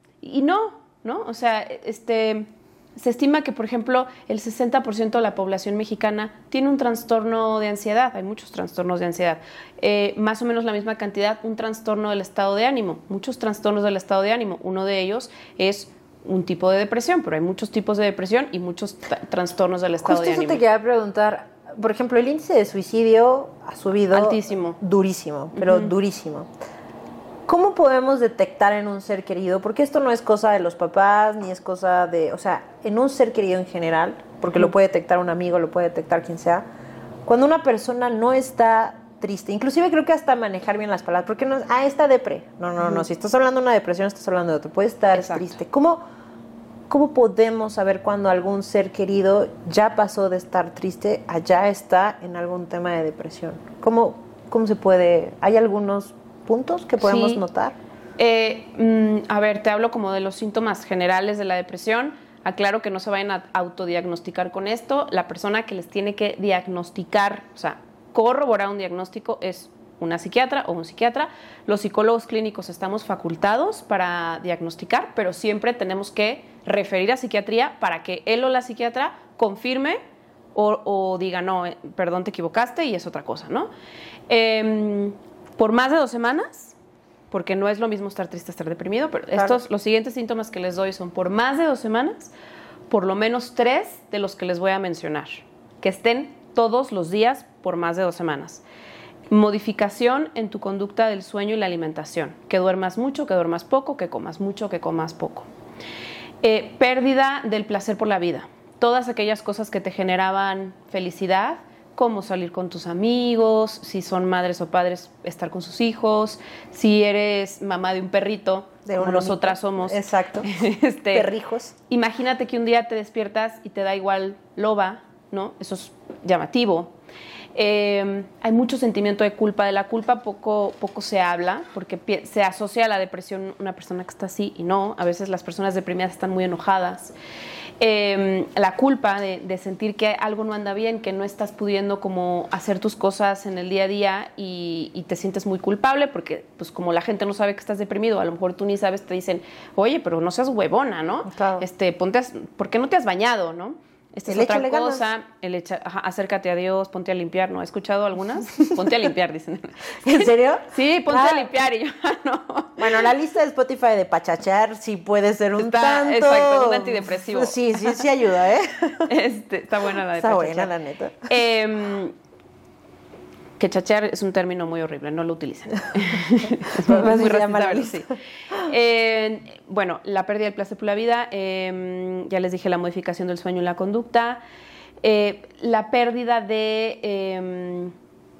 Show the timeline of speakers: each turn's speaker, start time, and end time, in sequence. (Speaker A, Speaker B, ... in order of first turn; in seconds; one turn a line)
Speaker A: 0.2-20.6
Speaker B: 20.0-26.5
Speaker A: 24.1-24.8
Speaker A: 25.6-25.9
Speaker B: 27.5-36.7
Speaker B: 37.3-46.0
Speaker A: 45.1-45.6
Speaker B: 46.9-57.8
Speaker A: 57.0-57.4
Speaker A: 58.2-80.0
Speaker A: 80.5-83.7
Speaker A: 84.3-86.8
Speaker A: 87.3-92.3
Speaker A: 92.9-98.6
Speaker A: 99.3-105.5
Speaker A: 106.4-121.3
Speaker B: 118.9-120.5
Speaker B: 121.1-121.7
Speaker A: 121.9-126.9
Speaker A: 127.5-137.1
Speaker A: 137.8-163.1
Speaker B: 151.3-151.7
Speaker B: 154.3-155.1
Speaker B: 160.0-161.5
Speaker B: 162.8-169.1
Speaker A: 165.6-168.1
Speaker A: 169.1-170.7
Speaker B: 170.2-171.3
Speaker A: 171.3-172.2
Speaker A: 173.6-178.1
Speaker B: 176.7-178.1
Speaker A: 178.6-184.4
Speaker A: 185.0-187.9